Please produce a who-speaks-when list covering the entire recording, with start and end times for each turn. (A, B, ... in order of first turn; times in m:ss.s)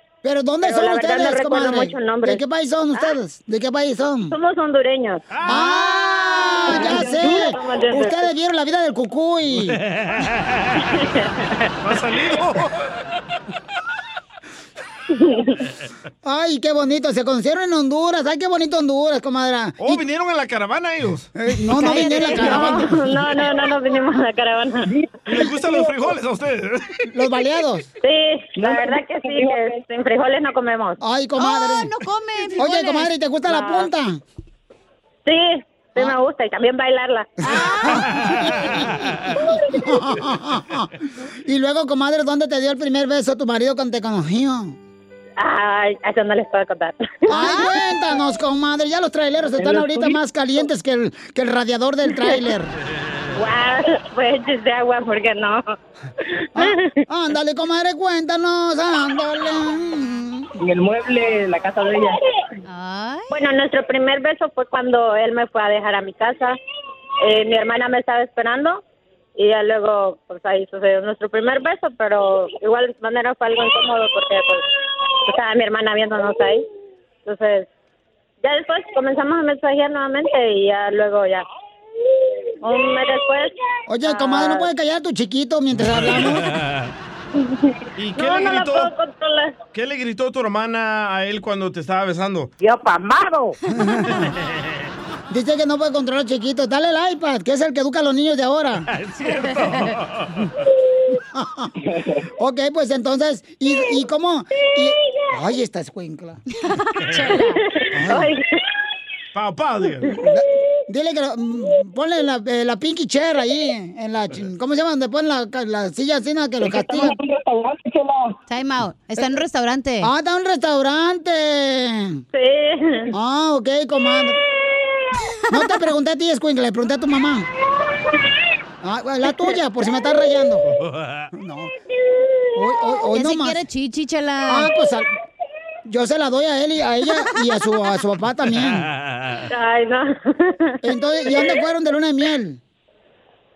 0:00.2-0:04.3 A
0:00.6-0:03.2 B
0:04.3-0:05.2 B
0:05.3-0:05.6 C
0:05.4-0:09.8 A
0:05.4-0:06.7 D
0:06.6-0:08.3 B
0:10.0-0:10.3 C
0:10.9-0:11.5 B
0:11.8-0:12.7 C
0:15.1-0:15.6 B
0:16.2-0:20.0 A
0:19.8-0:21.3 C
0:21.4-0:23.2 A
0:21.7-0:22.9 D
0:22.2-0:24.9 B
0:24.8-0:25.9 E
0:25.3-0:27.0 C
0:27.1-0:27.9 A
0:28.0-0:31.0 B
0:28.6-0:29.8 E
0:31.0-0:31.9 A
0:31.4-0:33.1 D
0:32.6-0:34.2 A
0:33.5-0:33.8 B
0:35.2-0:37.4 B
0:37.4-0:38.3 D
0:37.5-0:44.8 A
0:45.4-0:47.6 B
0:47.3-0:52.7 A
0:47.3-0:47.7 D
0:49.5-0:50.2 E
0:52.1-0:52.4 B
0:53.3-0:55.6 B
0:56.2-0:57.0 B
0:56.5-1:00.5 A
1:00.6-1:02.2 E
1:02.7-1:03.3 D
1:03.3-1:06.6 B
1:07.2-1:08.8 B
1:09.4-1:14.6 B
1:15.2-1:16.6 B
1:17.2-1:17.7 B
1:18.4-1:21.4 B
1:22.6-1:24.7 B
1:23.9-1:26.5 A
1:26.0-1:26.3 C
1:27.3-1:29.6 B
1:28.0-1:28.9 C
1:29.7-1:32.5 C
1:33.7-1:34.2 A
1:35.3-1:38.9 A
1:38.9-1:40.4 C
1:41.3-1:41.7 A
1:41.9-1:42.2 E
1:42.4-1:46.4 A
1:46.6-1:47.6 D
1:47.5-1:48.6 B
1:47.9-1:48.3 A
1:49.3-1:50.1 C
1:50.1-1:57.2 A
1:56.6-1:58.4 E
1:58.5-2:00.1 D
2:00.0-2:02.2 A
2:02.3-2:03.1 B
2:03.1-2:04.4 A
2:05.5-2:07.5 A
2:08.8-2:10.6 A
2:10.7-2:11.3 C
2:11.3-2:11.7 A
2:12.5-2:13.6 A
2:13.1-2:14.7 D
2:14.5-2:15.1 A
2:15.8-2:18.9 A
2:19.1-2:19.4 C
2:19.5-2:21.6 B
2:20.8-2:22.6 A